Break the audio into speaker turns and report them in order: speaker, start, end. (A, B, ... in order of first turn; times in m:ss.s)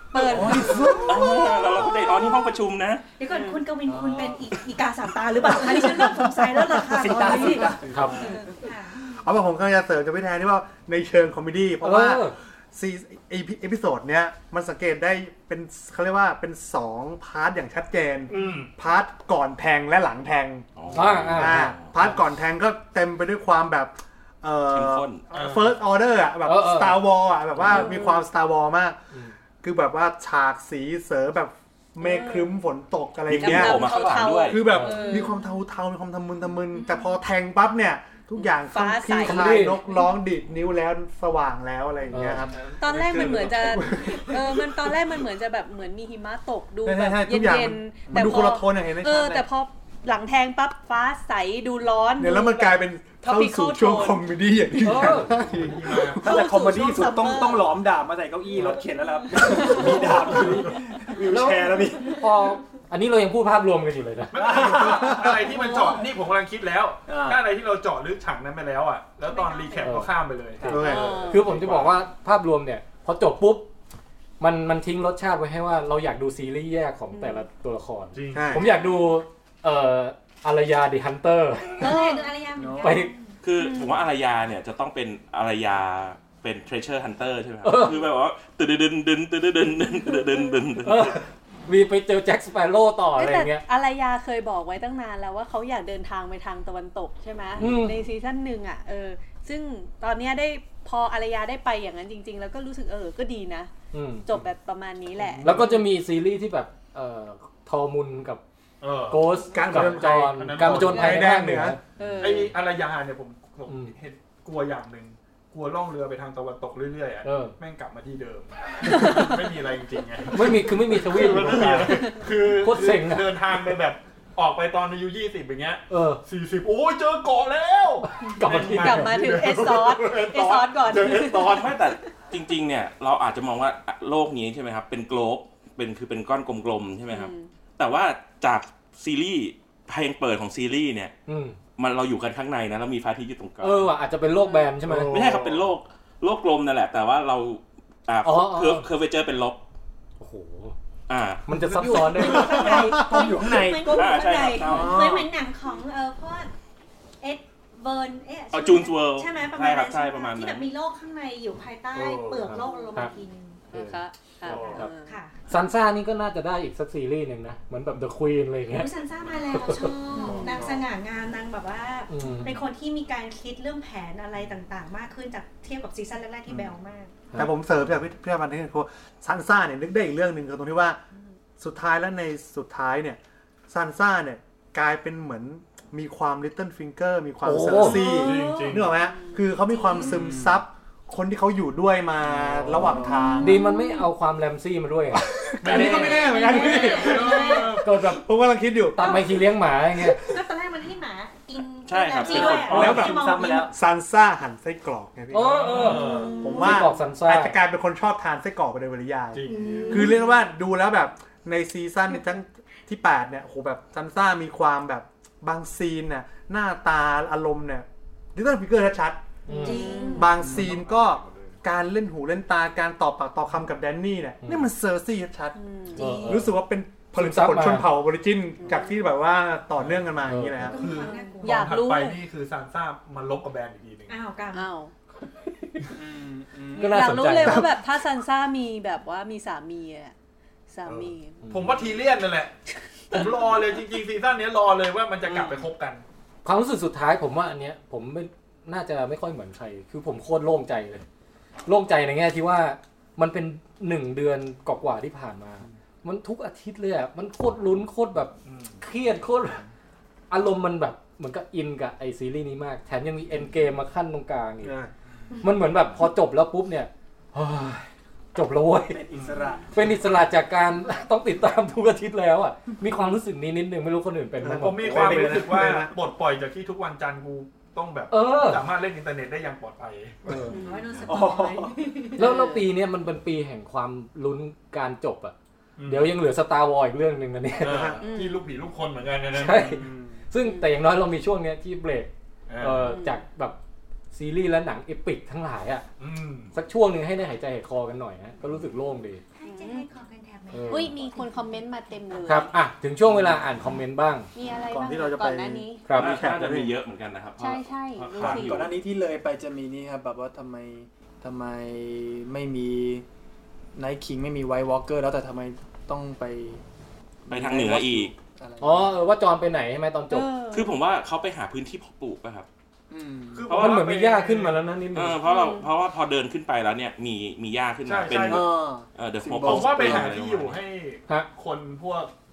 0:00.1-0:01.0 A
0:00.2-0:01.5 B
0:01.0-0:03.0 C
0:03.2-0:09.0 D
0:03.3-0:03.7 A
0:03.8-0:04.5 B
0:05.6-0:08.5 B
0:07.7-0:08.2 E
0:09.0-0:29.0 F
0:11.8-0:12.3 E
0:18.3-0:18.7 G
0:20.8-0:21.9 C
0:20.9-0:21.8 E
0:24.7-0:25.2 C
0:25.3-0:25.7 G
0:26.4-0:27.0 E
0:27.6-0:28.2 A
0:29.6-0:42.6 F
0:32.0-0:32.6 A
0:33.3-0:34.7 C
0:33.3-0:35.3 A
0:34.7-0:35.0 E
0:35.0-0:35.6 D
0:38.3-0:39.7 A
0:39.2-0:39.8 E
0:42.1-0:42.4 E
0:42.5-0:44.2 B
0:42.8-0:54.2 A
0:42.9-0:43.5 G
0:43.2-0:43.9 F
0:46.8-0:49.4 F
0:48.0-0:48.5 B
0:52.2-0:56.3 F
0:54.8-0:55.3 E
0:55.3-1:02.2 B
0:55.4-0:56.2 G
0:56.2-0:57.8 A
0:59.0-1:00.0 A
1:00.3-1:00.6 G
1:01.3-1:04.4 E
1:04.3-1:05.9 B
1:04.3-1:12.0 G
1:05.5-1:06.0 A
1:07.0-1:07.4 B
1:09.3-1:09.8 A
1:09.5-1:09.8 D
1:09.8-1:10.1 E
1:10.6-1:13.7 E
1:10.6-1:11.2 F
1:10.7-1:11.4 A
1:14.4-1:21.9 E
1:17.1-1:17.4 A
1:18.1-1:18.8 G
1:18.3-1:18.6 F
1:21.8-1:23.4 D
1:21.8-1:22.4 A
1:22.6-1:23.0 B
1:22.8-1:23.1 E
1:23.4-1:31.2 C
1:23.6-1:24.0 A
1:27.6-1:28.0 E
1:30.8-1:33.6 E
1:33.2-1:43.7 A
1:37.6-1:38.0 E
1:43.9-1:44.2 E
1:44.2-1:45.8 A
1:45.2-1:45.6 G
1:45.4-1:48.4 E
1:48.8-1:51.4 G
1:49.1-1:51.8 E
1:49.5-1:51.8 F
1:52.0-1:52.5 A
1:52.1-1:52.4 B
1:52.2-2:11.7 G
1:53.7-1:53.9 E
1:57.2-1:57.5 E
1:58.9-1:59.3 A
2:00.3-2:03.3 E
2:05.9-2:06.2 E
2:08.2-2:09.2 E
2:08.4-2:11.7 A
2:11.4-2:21.1 C
2:17.1-2:17.5 A
2:21.3-2:21.6 E
2:21.8-2:23.9 C
2:23.6-2:25.1 E
2:24.4-2:24.7 A
2:24.8-2:25.7 G
2:25.1-2:29.6 C
2:28.2-2:28.9 E
2:30.2-2:30.7 E
2:31.1-2:31.9 C
2:31.5-2:32.7 E
2:31.7-2:32.4 G
2:31.9-2:36.5 D
2:32.4-2:35.3 B
2:33.9-2:35.1 C
2:37.2-2:43.6 D
2:38.5-2:40.7 C
2:41.9-2:42.5 G
2:42.4-2:43.1 E
2:42.6-2:43.1 A
2:43.7-2:45.2 A
2:43.7-2:44.0 E
2:44.4-2:44.8 G
2:44.5-2:45.4 D
2:45.5-2:48.9 E
2:48.7-2:57.1 D
2:49.5-2:49.9 E
2:50.1-2:50.5 A
2:50.3-2:50.5 G
2:50.4-2:50.8 B
2:52.1-2:52.6 E
2:57.3-3:01.0 F
3:01.6-3:13.5 F
3:07.4-3:08.1 E
3:08.0-3:08.8 D
3:08.0-3:08.9 G
3:08.3-3:09.4 A
3:09.7-3:10.1 D
3:10.0-3:10.6 B
3:12.2-3:13.3 B
3:12.8-3:13.6 D
3:13.4-3:16.2 E
3:13.4-3:14.0 A
3:15.2-3:19.3 F
3:15.6-3:17.8 G
3:15.7-3:17.8 D
3:16.7-3:17.3 A
3:17.7-3:18.2 E
3:18.9-3:20.2 E
3:19.0-3:19.4 D
3:20.1-3:23.7 D
3:21.8-3:23.0 C
3:22.3-3:23.0 G
3:22.4-3:23.7 B
3:22.5-3:23.1 E
3:22.6-3:39.2 F
3:25.3-3:27.6 E
3:25.6-3:26.3 G
3:25.8-3:26.9 D
3:29.3-3:30.1 G
3:29.4-3:30.3 D
3:39.5-3:39.8 E
3:39.5-3:40.4 D
3:39.6-3:40.3 A
3:40.1-3:45.6 F
3:40.4-3:40.7 B
3:40.4-3:41.5 G
3:44.4-3:44.7 E
3:45.5-3:46.2 A
3:46.0-3:46.4 D
3:46.0-3:46.5 E
3:46.1-3:50.8 F
3:47.1-3:47.9 E
3:48.6-3:48.9 A
3:49.8-3:50.1 G
3:50.2-3:50.7 E
3:50.6-3:51.7 D
3:50.7-3:54.2 G
3:51.0-3:52.2 A
3:54.1-3:54.7 D
3:54.5-3:54.9 A
3:55.9-3:57.3 B
3:56.7-3:57.7 E
3:56.8-4:00.1 A
4:00.7-4:01.4 A
4:00.8-4:02.5 G
4:01.4-4:01.8 E
4:03.1-4:06.0 G
4:06.4-4:11.0 E
4:11.6-4:19.6 E
4:18.4-4:18.8 G
4:20.3-4:24.8 E
4:25.4-4:29.0 E
4:28.9-4:29.7 B
4:29.1-4:29.6 G
4:29.7-4:35.4 E
4:34.4-4:35.9 F
4:34.5-4:40.5 G
4:35.0-4:35.5 B
4:38.1-4:38.6 E
4:40.3-4:40.5 E
4:40.5-4:41.1 A
4:40.5-4:42.3 D
4:41.1-4:41.8 B
4:42.2-4:42.7 A
4:42.2-4:45.3 E
4:45.8-4:46.1 G
4:45.9-4:47.9 E
4:47.6-4:49.8 G
4:47.6-4:48.0 F
4:48.0-4:48.4 A
4:49.3-4:53.6 E
4:49.6-4:50.2 B
4:50.4-4:50.7 A
4:52.5-4:52.9 G
4:52.8-4:53.2 A
4:54.1-4:55.8 E
4:56.0-4:56.5 G
4:56.5-4:59.2 E
4:59.4-5:01.6 D
4:59.4-4:59.9 A
5:00.5-5:00.9 E
5:00.7-5:02.5 A
5:02.2-5:04.3 E
5:04.3-5:05.8 A
5:04.7-5:06.7 F
5:05.9-5:06.2 E
5:05.9-5:08.8 C
5:07.4-5:08.7 A
5:08.2-5:13.0 B
5:13.7-5:16.6 B
5:17.3-5:18.2 C
5:17.3-5:18.9 B
5:18.6-5:20.3 E
5:20.1-5:20.8 A
5:20.5-5:22.5 C
5:22.9-5:23.5 B
5:23.3-5:24.6 G
5:23.5-5:23.9 C
5:23.5-5:25.2 E
5:24.9-5:30.6 C
5:25.2-5:25.7 A
5:27.8-5:28.6 G
5:28.3-5:30.0 B
5:29.3-5:32.1 G